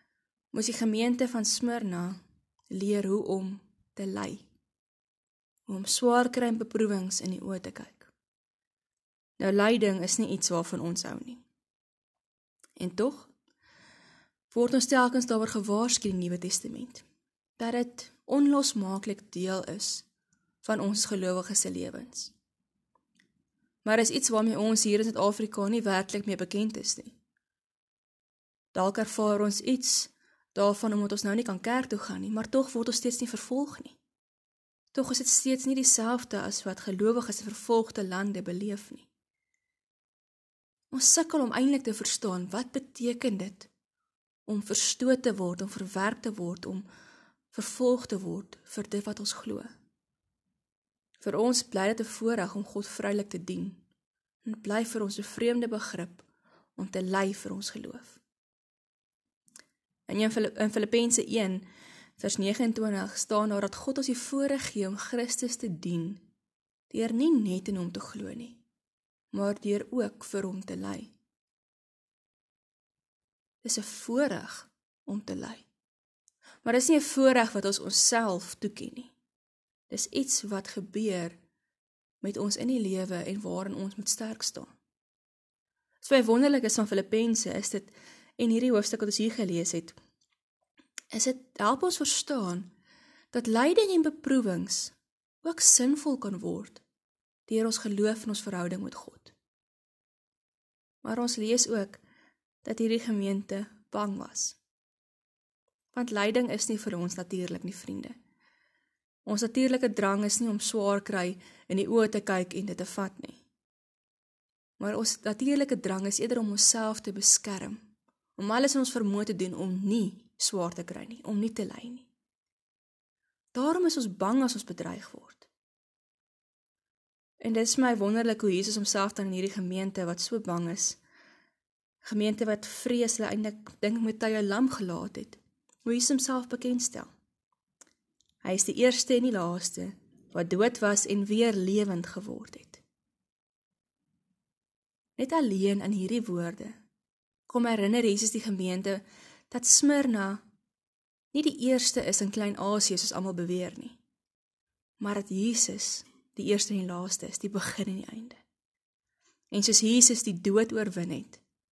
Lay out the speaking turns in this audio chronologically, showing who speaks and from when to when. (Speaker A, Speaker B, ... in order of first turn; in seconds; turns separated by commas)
Speaker A: 0.5-4.5, Speaker A: 5.7-8.1, Speaker A: 9.4-11.4, Speaker A: 12.8-13.3, Speaker A: 14.5-17.0, Speaker A: 17.6-20.1, Speaker A: 20.6-22.3, Speaker A: 23.8-27.1, Speaker A: 28.7-34.0, Speaker A: 34.9-39.1, Speaker A: 40.9-43.7, Speaker A: 44.5-46.8, Speaker A: 47.5-49.7, Speaker A: 51.2-53.8, Speaker A: 54.4-56.2, Speaker A: 56.8-58.2, Speaker A: 60.1-61.6, Speaker A: 62.2-66.2, Speaker A: 66.9-68.6, Speaker A: 69.3-71.1, Speaker A: 73.6-75.7, Speaker A: 76.6-79.1, Speaker A: 79.9-81.4, Speaker A: 82.2-84.7, Speaker A: 86.0-90.0, Speaker A: 91.1-92.7, Speaker A: 93.3-96.8, Speaker A: 97.5-99.3, Speaker A: 101.0-102.0, Speaker A: 102.6-104.6, Speaker A: 105.9-108.1, Speaker A: 109.2-113.4, Speaker A: 114.8-117.8, Speaker A: 118.4-122.1, Speaker A: 123.5-125.5, Speaker A: 127.4-131.0, Speaker A: 132.0-137.1, Speaker A: 138.4-142.8, Speaker A: 145.2-146.8, Speaker A: 147.5-150.4, Speaker A: 151.3-154.0, Speaker A: 155.0-158.4, Speaker A: 159.5-161.4